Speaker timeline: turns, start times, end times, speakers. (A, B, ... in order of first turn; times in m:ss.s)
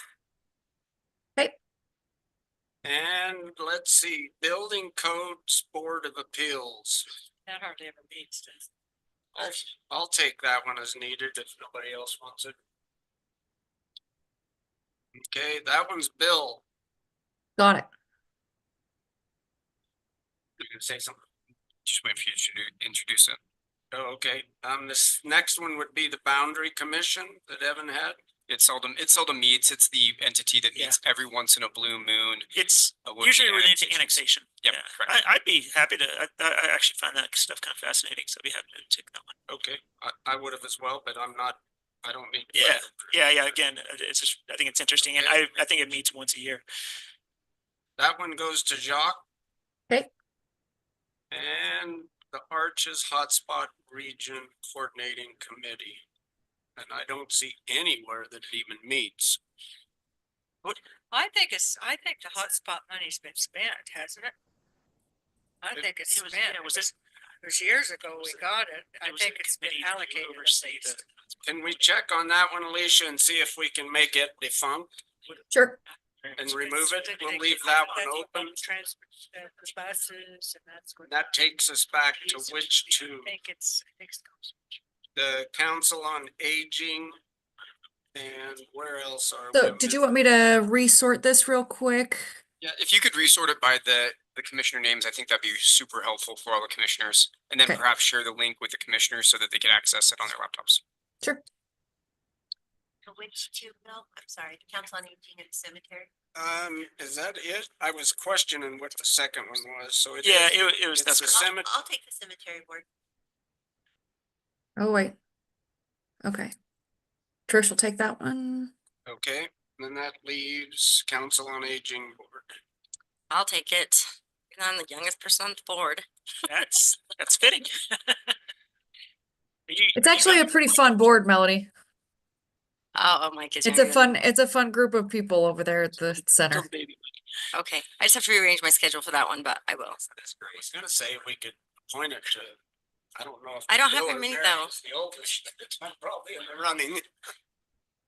0:02.8-0:07.0 A
0:07.4-0:08.7 B
0:09.3-0:12.6 A
0:15.3-0:16.6 A
0:17.6-0:17.9 C
0:20.6-0:21.2 A
0:21.8-0:23.4 D
0:23.9-0:28.2 A
0:28.5-0:32.5 D
0:32.5-0:39.3 E
0:33.0-0:35.1 D
0:39.5-0:43.2 A
0:42.5-0:46.6 E
0:48.0-0:49.2 A
0:51.3-0:56.0 A
0:56.8-0:59.4 A
1:00.6-1:04.3 B
1:05.6-1:11.0 B
1:06.0-1:06.9 E
1:09.0-1:11.8 E
1:11.4-1:14.9 A
1:15.5-1:15.8 C
1:16.4-1:18.6 A
1:16.4-1:21.3 B
1:21.0-1:23.3 A
1:22.0-1:24.6 B
1:25.1-1:27.2 A
1:28.1-1:30.1 A
1:29.5-1:32.2 C
1:32.6-1:40.8 D
1:43.0-1:46.1 F
1:46.4-1:51.7 A
1:50.2-1:51.5 E
1:51.3-1:52.8 F
1:54.8-1:55.1 C
1:56.2-1:56.5 C
1:57.5-1:58.7 C
1:59.0-2:02.4 A
2:03.3-2:06.0 G
2:06.5-2:08.3 E
2:09.7-2:10.5 E
2:09.9-2:11.7 C
2:12.9-2:14.2 G
2:13.6-2:16.7 C
2:17.5-2:20.0 G
2:20.1-2:22.6 A
2:23.2-2:27.0 A
2:23.7-2:24.7 G